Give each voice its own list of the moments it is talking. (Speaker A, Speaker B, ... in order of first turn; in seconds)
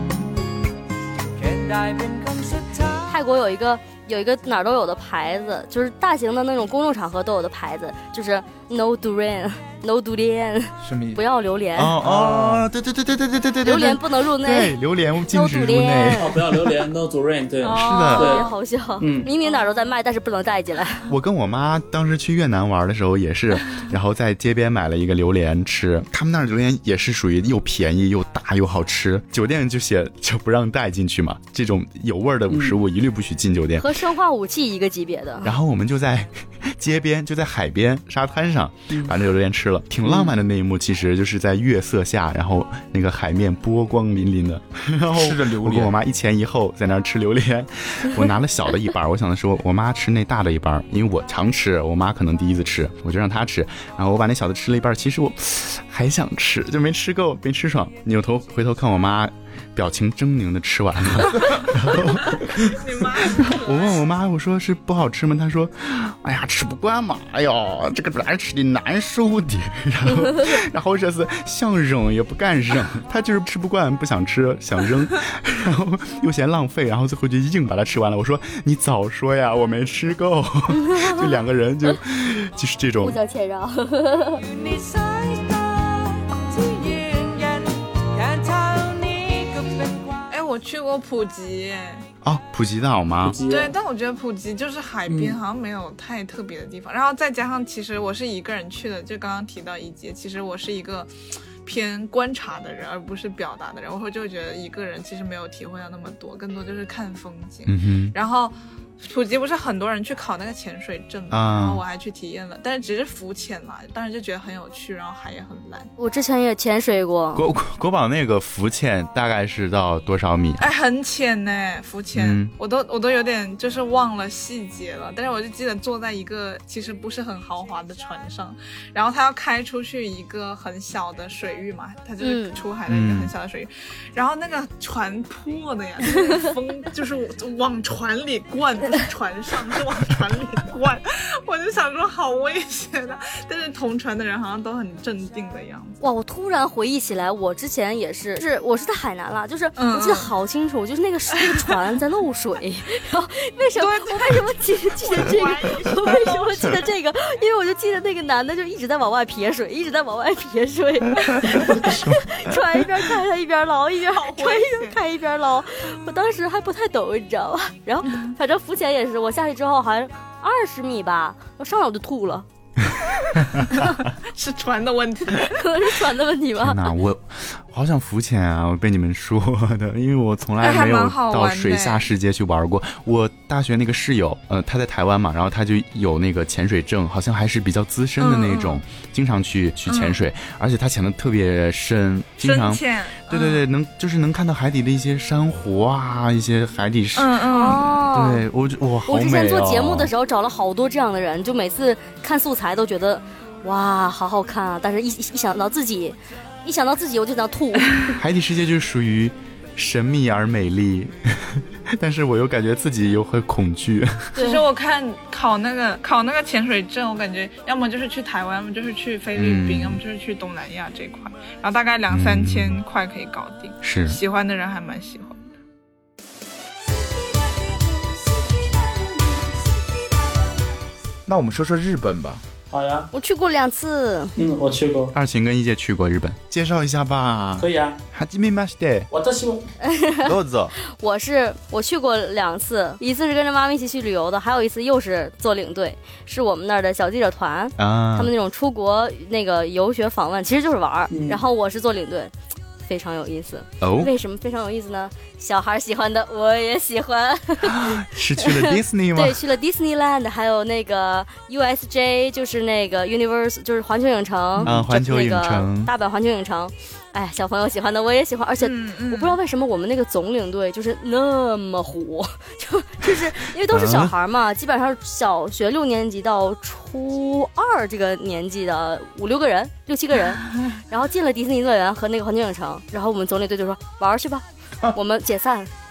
Speaker A: 3.0-11.9, 13.6-16.3, 18.1-21.1, 33.8-35.5, 80.8-81.2, 83.0-84.4, 116.0-117.4, 132.2-132.6, 146.0-172.4, 175.5-176.8, 197.5-198.4, 199.1-208.1, 214.3-214.6, 233.1-234.4, 239.8-285.7
Speaker B: 10.8-11.2, 12.0-12.7, 45.1-45.9, 132.9-133.3, 231.3-232.4
Speaker C: 11.8-16.6, 17.7-18.3, 21.1-33.9, 35.4-62.6, 63.4-83.2, 92.2-93.4, 107.7-108.1, 111.3-111.8, 117.3-120.6, 122.1-122.5, 176.6-200.1, 208.1-214.3, 219.3-220.0, 222.1-222.8, 223.8-224.2, 235.1-239.1, 240.2-240.7, 247.8-248.3, 253.8-254.1, 257.7-259.4, 264.6-265.9, 273.7-274.1
Speaker D: 16.2-18.5, 19.0-19.3, 32.5-32.8, 38.9-39.1, 40.0-40.3, 93.2-93.7, 95.1-95.4, 232.7-233.1, 234.4-235.1, 237.6-238.0, 239.1-239.7, 251.1-251.4
Speaker E: 17.6-18.5, 62.2-64.0, 90.3-92.0, 93.5-101.1, 101.6-115.9, 120.6-146.0, 149.8-150.3, 153.8-156.8, 164.1-165.0, 173.2-175.7, 180.6-182.1, 188.2-188.8, 189.8-190.2, 192.4-193.6, 197.1-197.9, 214.3-225.4, 268.6-269.4
Speaker F: 84.8-85.6, 86.6-87.4, 88.2-89.6, 227.4-229.8